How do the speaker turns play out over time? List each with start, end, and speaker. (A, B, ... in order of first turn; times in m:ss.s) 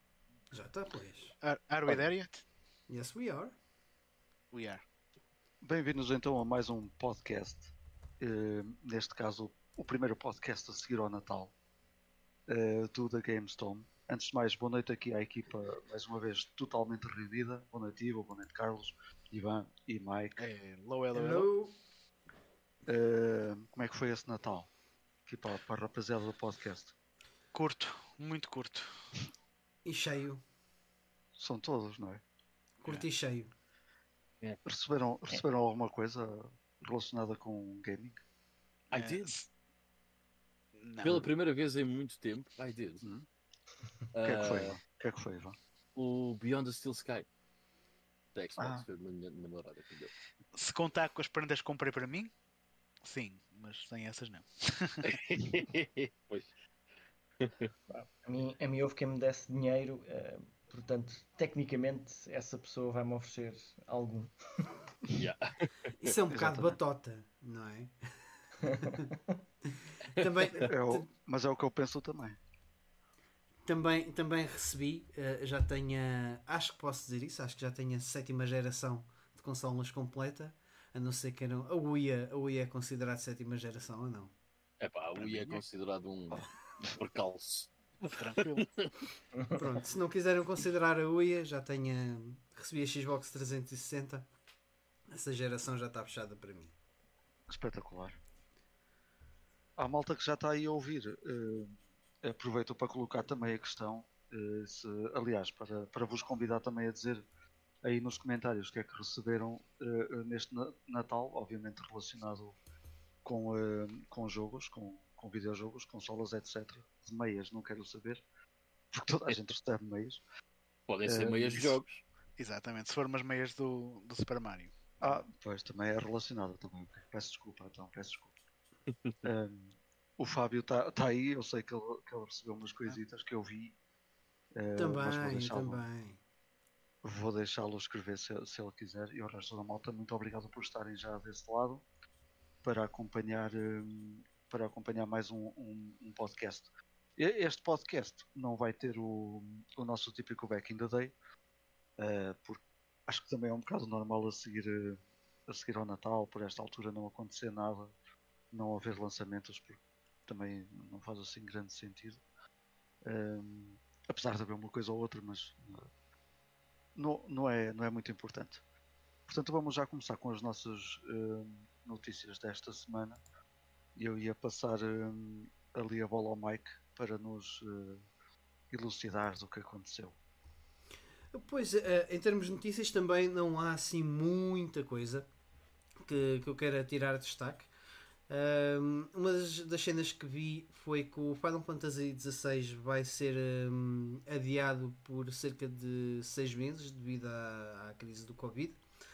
0:00.5-0:01.4 A
0:01.4-0:02.4 B
0:02.9-0:03.5 A
0:04.5-0:04.8 B
0:05.6-0:11.5 C
0:12.5-0:20.4 C
0:20.4-0:21.5 B
0:21.1-0:21.8 A
0:22.8-0:24.7 C
0:25.2-0:26.9 C
0:27.5-0:29.1 B
0:29.8-0:30.4 A
0:31.4-0:32.2 C
0:32.8-0:33.5 A
0:34.6-0:38.2 C
0:38.9-0:39.4 D
0:38.9-0:39.5 B
0:40.8-0:41.3 B
0:41.0-0:43.0 D
0:44.1-0:44.8 D
0:44.2-0:45.6 C
0:45.9-0:47.2 D
0:48.3-0:50.1 D
0:48.6-0:48.8 C
0:50.5-0:52.3 B
0:53.0-0:55.1 B
0:55.1-0:56.5 D
0:57.4-0:57.7 D
0:57.9-1:04.7 E
1:05.1-1:05.9 D
1:06.0-1:09.1 A
1:06.3-1:06.8 C
1:08.6-1:09.4 E
1:10.0-1:11.0 A
1:10.6-1:12.4 C
1:13.6-1:24.3 A
1:24.8-1:28.9 D
1:25.2-1:25.6 B
1:28.0-1:28.7 B
1:29.3-1:29.7 E
1:29.5-1:34.3 A
1:35.1-1:36.7 A
1:37.5-1:38.2 C
1:39.8-1:47.2 C
1:47.8-1:52.6 C
1:53.2-1:58.2 C
1:58.9-2:00.2 C
2:00.9-2:02.0 D
2:01.0-2:01.8 C
2:02.4-2:05.2 B
2:05.0-2:08.3 C
2:09.2-2:13.8 C
2:14.5-2:15.9 C
2:14.8-2:16.2 A
2:17.0-2:21.8 C
2:22.6-2:31.1 C
2:32.0-2:37.9 C
2:38.5-2:42.2 C
2:43.0-2:45.9 C
2:47.0-2:48.6 C
2:49.3-2:53.2 C
2:54.0-2:58.0 C
2:58.7-3:00.2 C
3:01.3-3:05.3 A
3:06.0-3:07.7 A
3:08.3-3:18.8 A